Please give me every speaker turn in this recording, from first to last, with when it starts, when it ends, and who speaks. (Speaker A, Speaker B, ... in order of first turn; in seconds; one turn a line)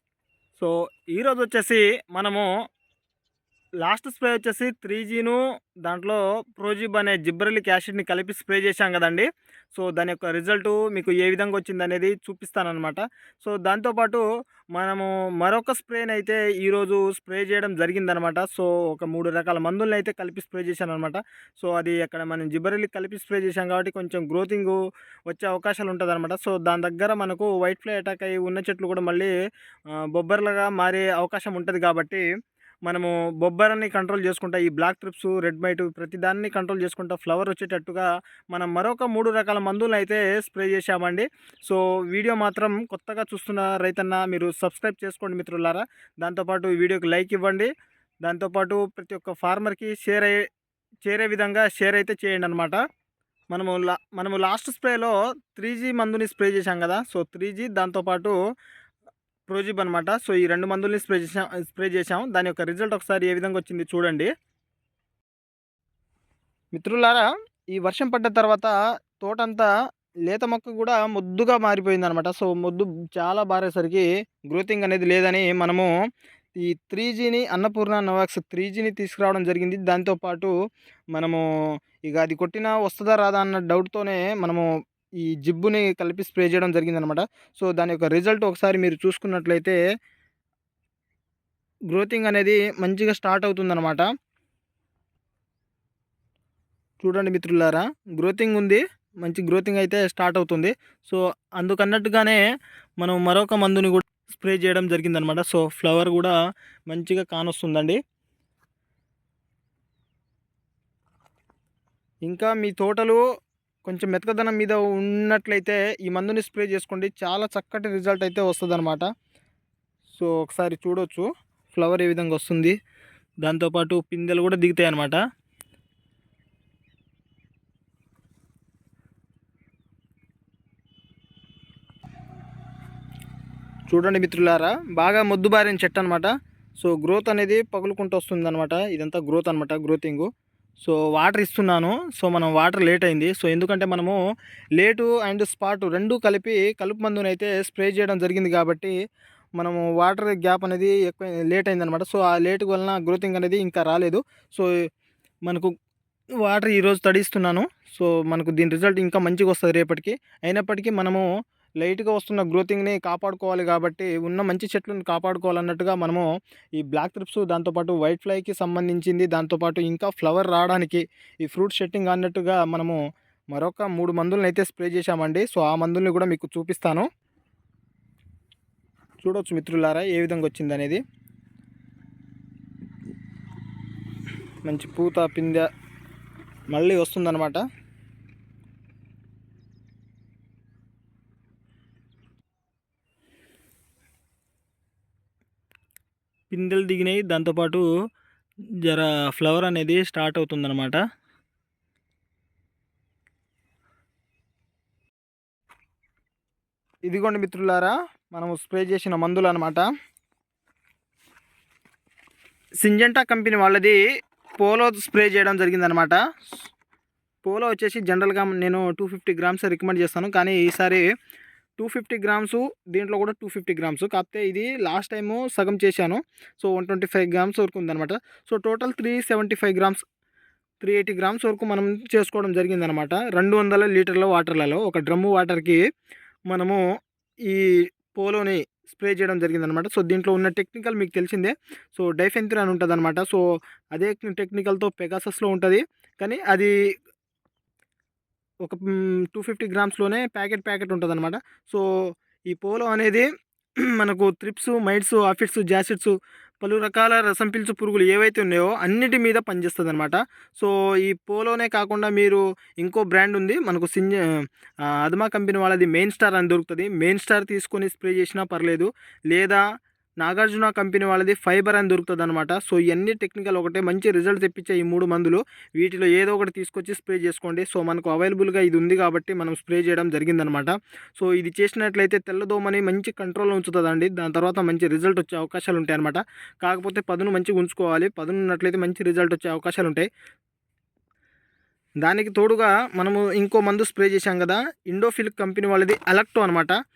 Speaker A: 0.6-2.5
Speaker A: 3.8-14.2
Speaker A: 14.7-29.3
Speaker A: 30.1-32.2
Speaker A: 32.9-47.7
Speaker A: 48.2-50.4
Speaker A: 51.0-52.8
Speaker A: 53.5-58.4
Speaker A: 59.5-64.3
Speaker A: 66.7-69.7
Speaker A: 70.2-75.9
Speaker A: 76.6-80.5
Speaker A: 81.1-81.4
Speaker A: 82.1-84.6
Speaker A: 85.2-89.8
Speaker A: 91.9-94.0
Speaker A: 97.0-102.4
Speaker A: 103.0-106.3
Speaker A: 106.9-108.0
Speaker A: 112.2-113.2
Speaker A: 113.8-119.0
Speaker A: 120.1-122.7
Speaker A: 123.4-125.2
Speaker A: 133.9-140.3
Speaker A: 140.8-144.2
Speaker A: 144.8-148.9
Speaker A: 149.6-154.7
Speaker A: 155.4-155.7
Speaker A: 156.4-161.2
Speaker A: 161.8-166.2
Speaker A: 166.8-173.0
Speaker A: 173.5-177.1
Speaker A: 179.2-181.0
Speaker A: 184.6-185.7
Speaker A: 186.7-187.6
Speaker A: 196.5-197.8
Speaker A: 198.8-201.0
Speaker A: 207.1-209.8
Speaker A: 212.8-214.0
Speaker A: 214.6-216.2
Speaker A: 217.4-221.1
Speaker A: 221.8-230.0
Speaker A: 230.8-235.8
Speaker A: 236.5-236.8
Speaker A: 237.4-246.7
Speaker A: 248.6-251.8
Speaker A: 252.5-253.3
Speaker A: 253.9-264.2
Speaker A: 264.9-269.6
Speaker A: 270.2-290.1
Speaker A: 292.0-296.7